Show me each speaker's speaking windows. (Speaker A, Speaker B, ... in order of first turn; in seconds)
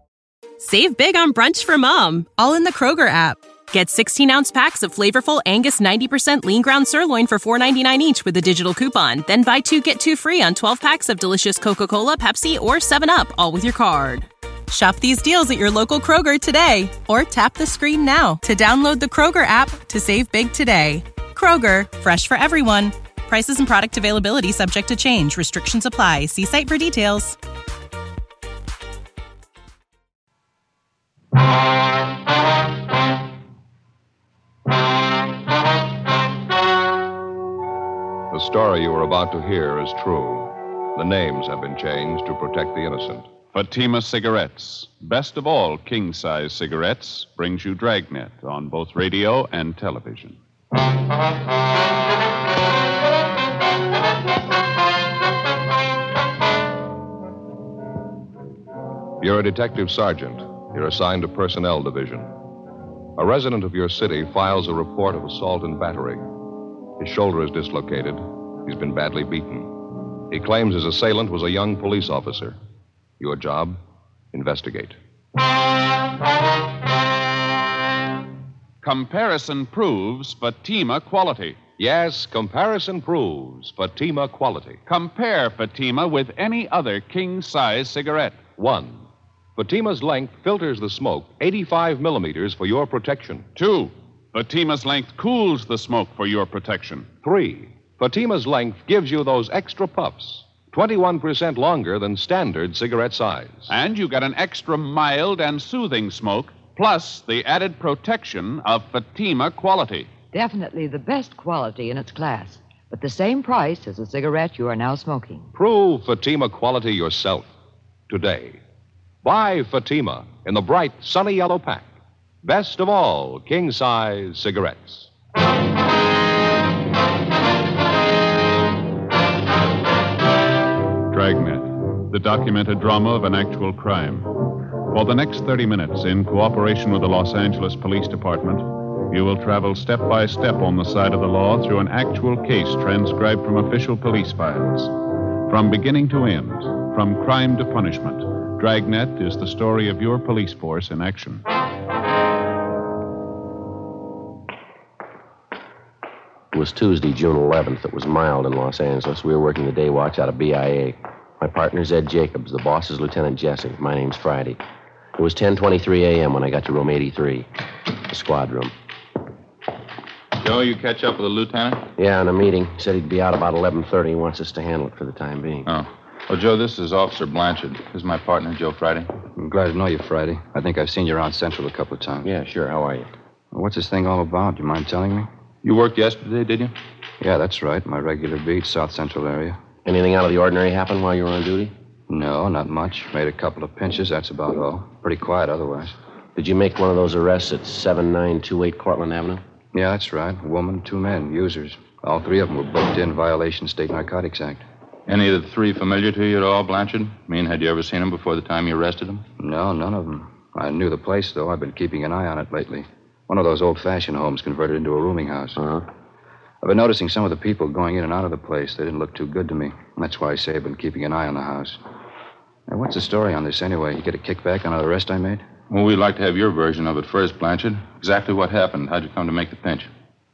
Speaker A: 0.6-27.4
Speaker B: 38.3-43.3, 59.2-62.3, 63.2-66.3, 67.0-72.6, 73.2-73.8, 74.3-75.0, 81.8-84.8, 88.6-89.0, 89.6-93.5, 97.2-103.7, 115.5-117.5, 118.1-118.6, 119.2-121.9, 122.4-125.1
Speaker C: 43.5-50.4, 78.8-81.6, 84.9-88.4, 93.6-97.1, 103.7-110.1, 131.1-134.3, 134.9-144.9, 145.5-151.4
Speaker D: 110.3-115.5
Speaker E: 156.5-164.6, 165.2-167.5, 168.1-168.7, 172.0-175.7, 182.2-183.1, 189.8-191.7, 196.4-199.4, 215.6-215.8
Speaker F: 170.4-171.9, 175.7-179.1, 185.6-186.7, 205.1-209.2, 225.7-229.9
Speaker G: 179.4-182.3, 183.5-185.3, 187.2-189.6, 192.1-196.0, 199.7-204.6, 209.4-215.6, 216.6-221.8, 222.7-225.4